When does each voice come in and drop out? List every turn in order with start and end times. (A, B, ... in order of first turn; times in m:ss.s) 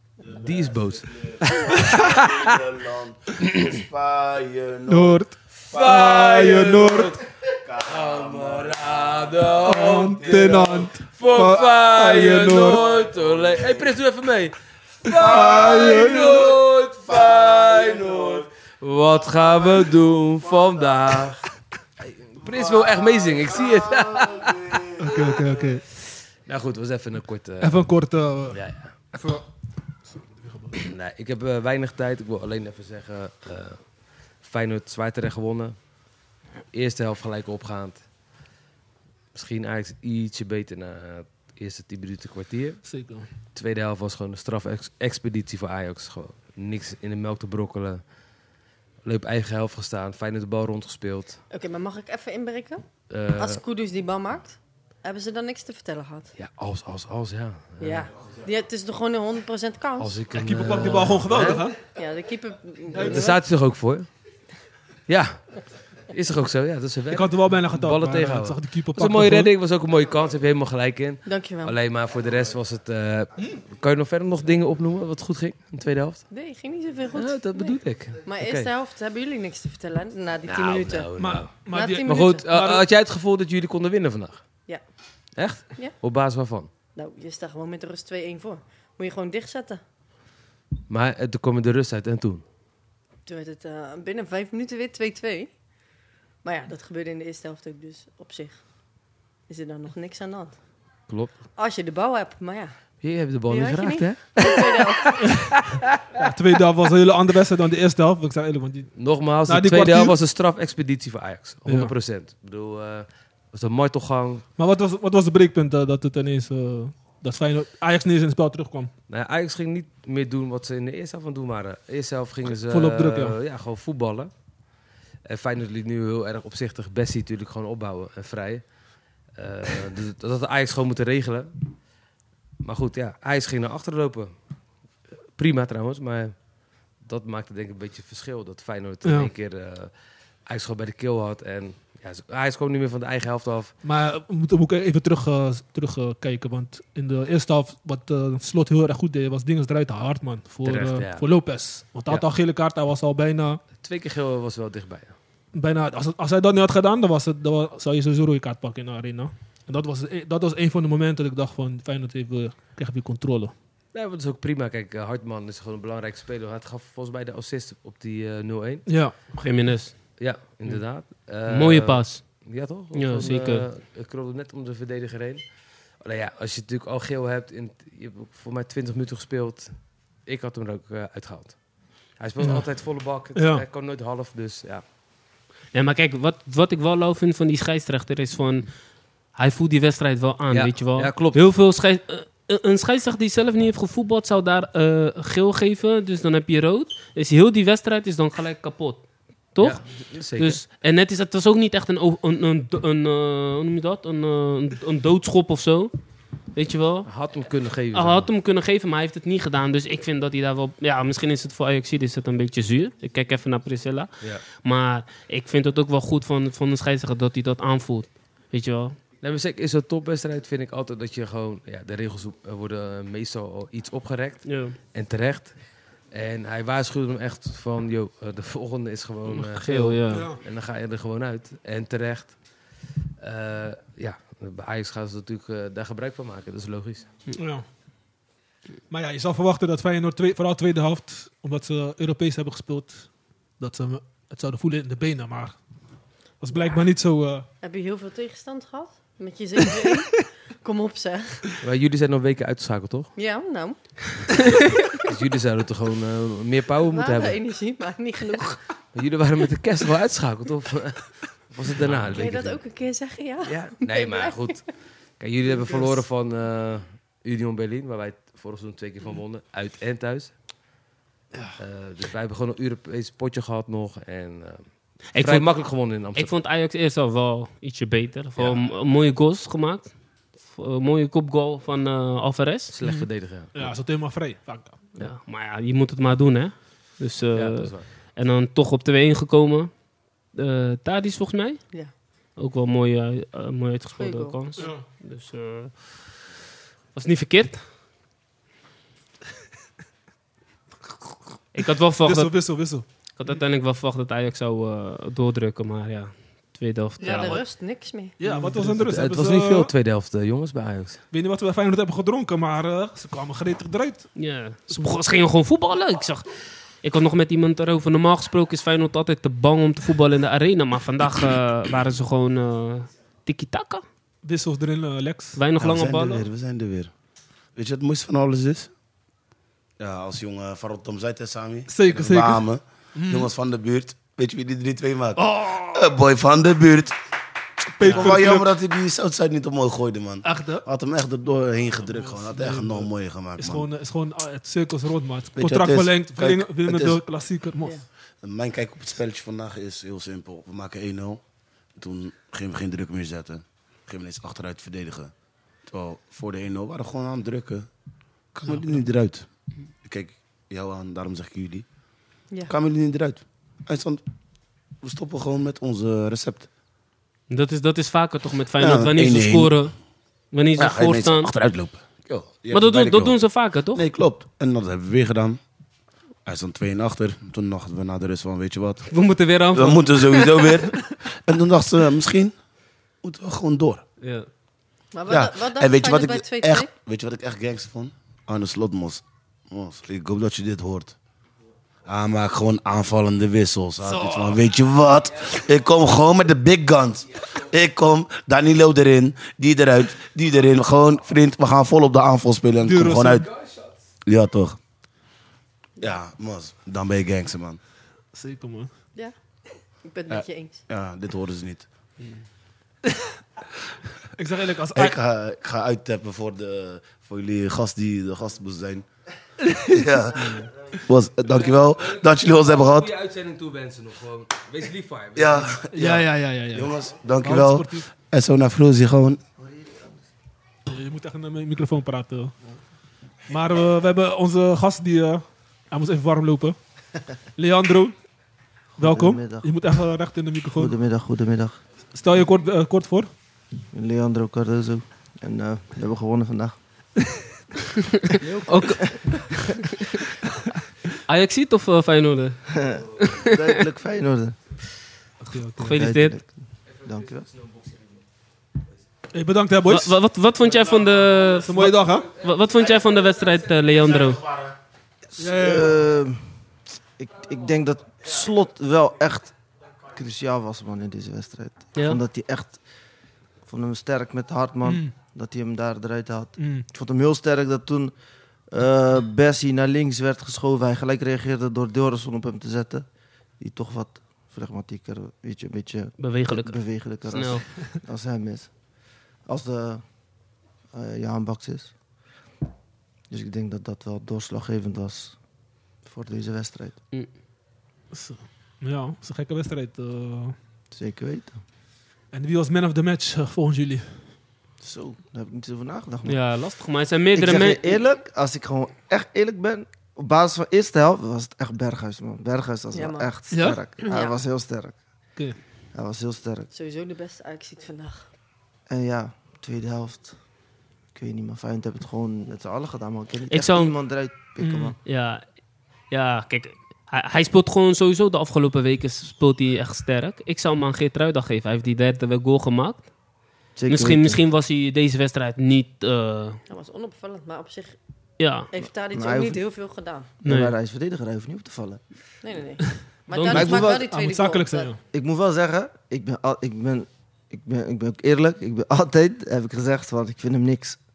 0:00.2-0:11.5 A
0:00.3-0:02.0 B
0:04.9-0:07.2 C
0:05.7-0:07.1 B
0:07.8-0:21.4 B
0:09.6-0:12.8 C
0:12.6-0:13.9 A
0:15.1-0:16.3 C
0:15.1-0:18.5 A
0:19.4-0:19.9 A
0:20.4-0:21.3 A
0:22.0-0:24.9 B
0:22.4-0:25.6 A
0:25.0-0:25.8 C
0:26.4-0:27.9 B
0:27.6-0:28.6 C
0:28.5-0:29.0 B
0:29.1-0:29.4 C
0:30.0-0:30.9 C
0:30.8-0:35.9 B
0:36.7-0:38.0 B
0:39.3-0:42.8 B
0:42.8-0:43.3 C
0:43.5-0:48.0 B
0:49.0-0:51.4 B
0:51.5-0:56.3 D
0:53.1-0:53.6 B
0:56.4-0:58.1 B
0:57.8-1:00.2 D
1:00.0-1:01.8 B
1:00.3-1:01.8 C
1:01.9-1:03.4 D
1:02.9-1:04.1 B
1:02.9-1:03.2 C
1:05.1-1:16.2 B
1:07.1-1:09.5 C
1:11.2-1:11.7 D
1:16.3-1:21.1 D
1:17.1-1:18.7 B
1:20.4-1:24.6 B
1:21.2-1:22.8 C
1:21.7-1:22.4 D
1:25.4-1:26.7 B
1:27.0-1:29.8 D
1:30.9-1:32.4 B
1:33.2-1:35.5 D
1:36.4-1:38.6 D
1:39.5-1:40.6 D
1:41.1-1:41.4 B
1:41.6-1:42.7 D
1:43.0-1:46.1 B
1:43.5-1:45.2 D
1:45.2-1:45.6 C
1:46.2-1:50.2 C
1:49.0-1:54.4 B
1:51.6-1:51.9 C
1:54.6-1:58.9 C
1:59.1-2:04.3 B
2:02.5-2:03.4 C
2:05.2-2:08.7 B
2:09.3-2:11.5 B
2:12.6-2:14.3 B
2:15.3-2:19.9 B
2:19.0-2:19.3 C
2:20.4-2:23.7 B
2:23.8-2:33.6 C
2:30.6-2:31.5 B
2:33.8-2:35.2 B
2:35.5-2:43.5 C
2:43.9-2:49.4 B
2:48.8-2:49.2 C
2:49.4-2:50.0 E
2:50.2-3:04.8 B
2:51.5-2:53.7 E
3:02.4-3:03.6 C
3:05.7-3:25.9 E
3:10.5-3:11.4 B
3:19.6-3:20.6 B
3:26.5-3:27.1 E
3:27.0-3:28.3 B
3:27.9-3:39.0 E
3:39.2-3:45.5 B
3:44.4-3:44.8 E
3:46.1-3:52.6 B
3:49.3-3:50.3 E
3:50.1-3:50.4 C
3:53.2-3:57.1 B
3:57.3-3:57.6 C
3:58.9-4:05.6 C
4:06.4-4:07.4 C
4:06.5-4:06.8 D
4:07.6-4:11.4 D
4:11.6-4:13.1 B
4:13.2-4:14.1 D
4:15.0-4:17.4 B
4:16.9-4:18.6 D
4:18.9-4:22.6 B
4:22.1-4:24.6 D
4:23.4-4:30.3 B
4:25.6-4:26.0 D
4:31.6-4:36.3 B
4:35.1-4:42.7 E
4:38.4-4:38.6 B
4:42.7-4:43.8 B
4:42.8-4:44.9 C
4:45.0-4:49.8 E
4:47.3-4:47.9 B
4:50.3-4:56.1 E
4:54.0-4:54.8 D
4:54.6-4:54.8 C
4:56.9-4:57.6 E
5:01.5-5:07.4 E
5:02.0-5:02.8 C
5:07.0-5:07.5 C
5:07.0-5:08.2 D
5:08.2-5:09.7 C
5:08.4-5:11.0 B
5:11.1-5:14.1 C
5:14.2-5:23.8 E
5:24.2-5:25.4 C
5:25.3-5:26.3 E
5:25.6-5:26.9 A
5:27.6-5:28.7 A
5:29.8-5:37.0 A
5:31.7-5:32.4 C
5:33.0-5:33.3 C
5:35.2-5:35.8 C
5:37.8-5:38.5 C
5:37.8-5:43.7 A
5:40.2-5:40.6 C
5:41.9-5:47.8 C
5:45.4-5:47.0 A
5:48.2-5:51.2 A
5:51.8-5:55.1 A
5:55.7-5:57.7 A
5:58.3-5:59.2 A
5:58.4-5:58.8 C
5:59.8-6:01.6 A
6:02.5-6:04.0 A
6:04.8-6:06.5 A
6:07.3-6:09.7 E
6:08.6-6:09.6 A
6:10.3-6:11.3 E
6:10.6-6:15.4 A
6:12.5-6:13.8 E
6:16.2-6:18.9 A
6:18.9-6:20.5 E
6:19.5-6:22.3 A
6:23.0-6:23.8 A
6:24.0-6:24.3 E
6:24.9-6:26.7 D
6:25.1-6:30.9 A
6:31.8-6:43.3 A
6:35.2-6:35.5 B
6:42.6-6:43.2 C
6:43.1-6:43.8 B
6:44.0-6:44.6 A
6:45.8-6:47.6 A
6:48.1-6:48.7 C
6:49.8-6:50.6 D
6:50.1-6:51.6 A
6:54.1-6:55.0 C
6:54.7-6:58.8 A
6:59.4-7:00.2 C
6:59.6-7:02.9 A
7:01.2-7:05.6 B
7:05.2-7:09.2 A
7:05.7-7:07.8 C
7:09.4-7:10.0 F
7:10.7-7:12.3 C
7:13.3-7:16.6 C
7:17.4-7:18.0 C
7:18.8-7:20.8 C
7:18.8-7:19.5 F
7:20.6-7:21.6 F
7:21.9-7:23.1 C
7:23.7-7:26.6 F
7:28.1-7:30.0 E
7:28.2-7:29.2 F
7:31.1-7:33.6 E
7:32.5-7:34.4 F
7:35.2-7:35.8 C
7:35.6-7:36.2 E
7:35.7-7:37.2 F
7:36.8-7:37.9 B
7:39.1-7:40.0 C
7:39.7-7:44.2 E
7:40.5-7:44.3 B
7:41.4-7:42.1 C
7:45.2-7:46.4 F
7:45.2-7:45.7 C
7:47.0-7:52.6 F
7:51.8-7:52.0 E
7:53.4-7:57.9 F
7:54.6-7:55.0 C
7:56.4-7:56.7 C
7:58.5-8:02.8 F
8:03.4-8:08.5 F
8:06.0-8:07.5 E
8:09.2-8:09.8 F
8:10.7-8:11.7 F
8:13.1-8:15.2 F
8:15.8-8:16.8 F
8:17.9-8:20.4 C
8:20.7-8:21.4 F
8:22.1-8:24.2 C
8:24.6-8:26.2 F
8:26.0-8:27.8 E
8:27.1-8:34.8 F
8:32.7-8:33.2 D
8:33.3-8:33.6 C
8:33.8-8:34.2 D
8:35.7-8:36.5 F
8:36.5-8:38.1 D
8:38.7-8:40.2 F
8:40.9-8:44.8 F
8:43.3-8:43.7 E
8:44.4-8:44.8 C
8:44.8-8:45.2 E
8:45.9-8:52.9 E
8:53.5-8:56.4 E
8:53.6-8:54.2 F
8:56.5-8:57.8 D
8:58.2-8:58.5 E
8:58.5-9:00.2 D
8:58.9-8:59.4 F
9:00.2-9:02.0 F
9:00.2-9:00.5 E
9:02.2-9:04.7 D
9:02.6-9:04.8 C
9:03.1-9:03.5 E
9:03.3-9:03.8 F
9:04.9-9:10.8 F